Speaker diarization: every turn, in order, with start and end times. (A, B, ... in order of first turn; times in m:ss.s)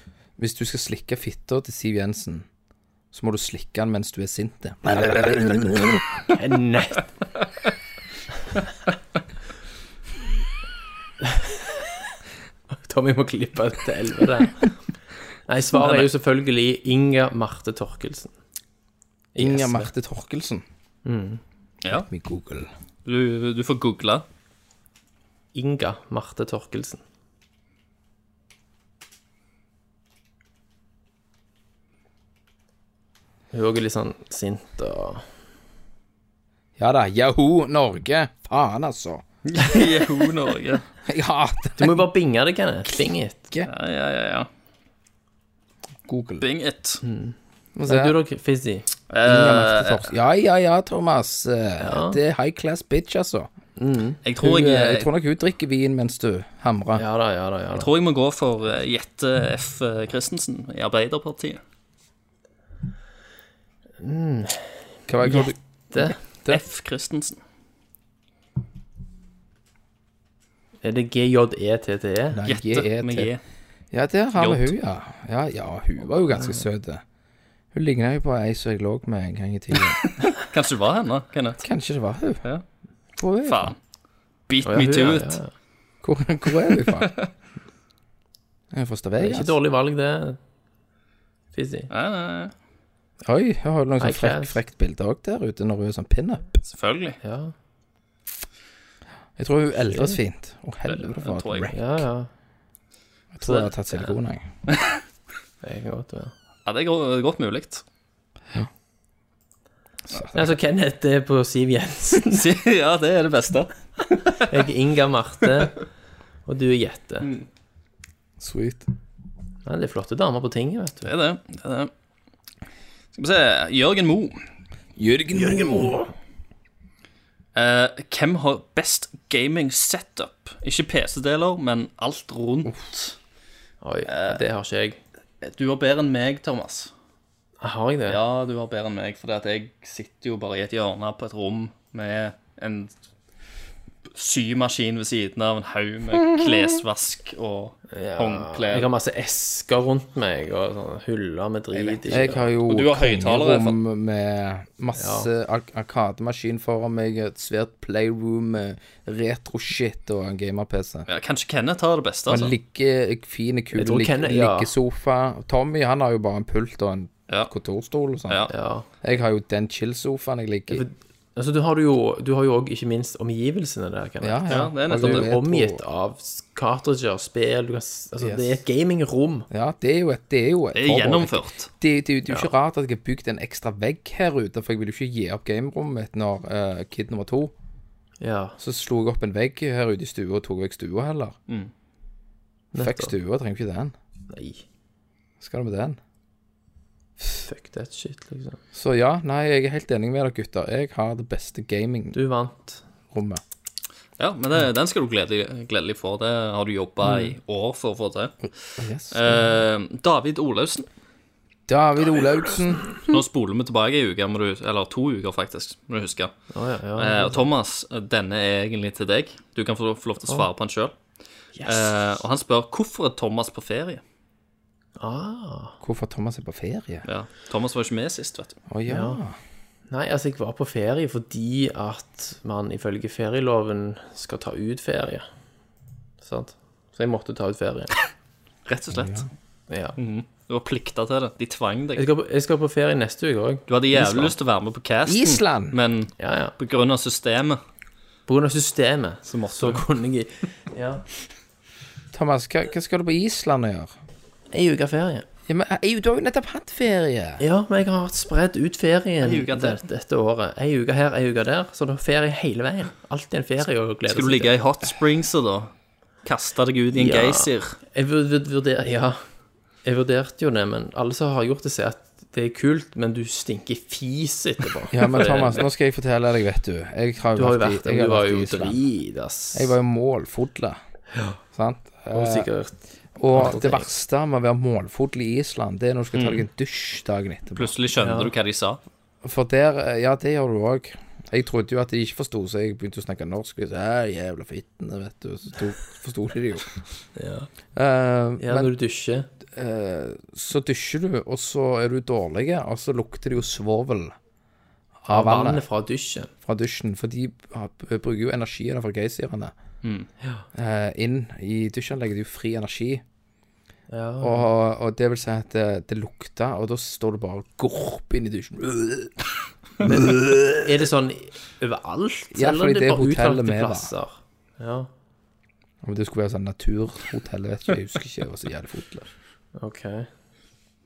0:00.4-0:02.5 A
0:03.1-0:06.1 A
0:06.3-0:07.1 B
0:11.2-0:11.6 B
0:12.7-0:14.7 B
0:15.5-0:18.3 B
0:15.8-0:16.1 C
0:19.4-0:19.9 B
0:19.4-0:20.6 A
0:21.0-0:21.4 B
0:21.9-0:22.7 A
0:23.1-0:24.2 C
0:25.5-0:27.0 B
0:33.5-0:35.2 B
0:36.8-0:39.2 A
0:39.5-0:40.8 C
0:41.0-0:42.1 A
0:41.8-0:43.4 B
0:43.7-0:44.5 C
0:46.1-0:46.4 A
0:46.4-0:47.0 C
0:47.0-0:48.9 B
0:47.8-0:48.2 A
0:49.1-0:50.1 C
0:49.2-0:53.5 A
0:51.8-0:52.2 B
0:53.8-0:54.2 B
0:54.2-0:55.1 C
0:54.4-0:57.0 A
0:57.0-0:57.9 B
0:57.7-1:01.6 C
1:04.0-1:06.2 B
1:05.1-1:05.6 A
1:06.5-1:07.4 C
1:10.8-1:12.4 B
1:12.3-1:13.3 A
1:12.5-1:13.4 C
1:13.9-1:17.0 A
1:14.4-1:14.7 C
1:16.3-1:16.6 B
1:17.7-1:20.1 A
1:20.2-1:21.6 C
1:21.6-1:22.4 A
1:23.2-1:23.7 A
1:23.4-1:23.8 C
1:24.5-1:25.4 C
1:24.6-1:25.5 B
1:26.0-1:27.1 A
1:26.9-1:27.3 C
1:28.7-1:29.5 A
1:29.2-1:30.4 B
1:31.5-1:31.9 B
1:31.9-1:32.5 C
1:33.2-1:36.6 A
1:34.0-1:34.6 B
1:36.7-1:37.2 C
1:37.2-1:37.5 B
1:39.4-1:41.8 A
1:40.9-1:41.7 C
1:41.7-1:42.3 B
1:43.3-1:44.5 A
1:45.6-1:46.3 B
1:46.7-1:47.8 C
1:50.1-1:50.5 A
1:50.3-1:52.5 B
1:52.3-1:54.4 C
1:54.4-1:55.8 B
1:56.5-1:57.3 B
1:58.4-1:58.9 A
1:59.6-2:01.1 B
2:01.0-2:01.9 C
2:03.2-2:04.4 C
2:05.0-2:06.1 A
2:07.6-2:13.2 C
2:13.8-2:15.0 B
2:14.1-2:14.4 C
2:15.4-2:16.9 C
2:17.6-2:18.2 B
2:18.1-2:22.9 C
2:24.1-2:28.9 C
2:27.9-2:32.4 B
2:31.8-2:33.8 C
2:32.1-2:41.1 A
2:35.0-2:35.3 B
2:41.1-2:42.5 C
2:42.3-2:48.5 A
2:43.8-2:44.7 B
2:48.5-2:48.9 B
2:49.0-2:50.8 A
2:50.7-2:59.5 B
2:54.2-2:55.8 A
2:54.5-2:55.3 C
2:58.2-2:58.6 A
2:59.5-3:07.5 A
3:00.8-3:01.7 C
3:08.2-3:08.6 B
3:08.6-3:11.4 A
3:12.7-3:13.1 B
3:12.8-3:13.9 A
3:14.3-3:14.6 B
3:15.4-3:16.0 A
3:17.5-3:18.6 B
3:18.7-3:22.2 A
3:22.1-3:22.8 B
3:23.1-3:23.4 A
3:24.2-3:28.4 C
3:28.8-3:29.5 A
3:29.1-3:30.9 C
3:31.7-3:32.9 A
3:33.0-3:36.4 C
3:36.5-3:37.4 B
3:37.0-3:40.9 C
3:40.2-3:40.5 B
3:41.6-3:41.9 B
3:41.6-3:44.0 C
3:45.0-3:45.8 B
3:45.8-3:47.0 A
3:47.0-3:48.6 C
3:48.7-3:49.4 A
3:48.9-3:49.2 B
3:49.9-3:55.3 B
3:56.2-3:57.9 B
3:58.7-3:59.3 C
3:58.9-3:59.3 A
3:59.7-4:00.0 B
4:00.0-4:02.1 C
4:02.0-4:04.3 B
4:03.7-4:07.6 C
4:05.1-4:05.8 A
4:06.2-4:06.6 B
4:08.3-4:11.0 B
4:09.3-4:09.8 C
4:12.1-4:13.9 A
4:14.5-4:15.3 B
4:15.5-4:17.4 A
4:17.4-4:24.5 B
4:19.2-4:19.8 C
4:24.1-4:25.7 C
4:26.2-4:27.8 C
4:27.0-4:29.2 B
4:29.8-4:35.6 B
4:34.9-4:38.8 A
4:37.4-4:39.8 B
4:39.5-4:40.8 A
4:41.5-4:42.5 A
4:42.1-4:42.8 B
4:43.2-4:47.7 A
4:43.3-4:43.9 B
4:46.2-4:46.4 C
4:47.6-4:48.8 C
4:48.0-4:48.3 B
4:49.2-4:56.7 A
4:57.2-4:57.5 B
4:57.8-4:58.7 A
4:58.4-4:59.3 B
4:59.5-5:04.2 A
5:05.0-5:05.6 A
5:05.1-5:06.3 B
5:06.4-5:09.5 A
5:09.8-5:10.1 C
5:10.5-5:13.0 A
5:13.9-5:14.5 B
5:14.2-5:19.2 A
5:19.8-5:20.6 A
5:19.9-5:24.9 B
5:22.3-5:23.9 A
5:25.8-5:29.1 A
5:29.6-5:30.1 B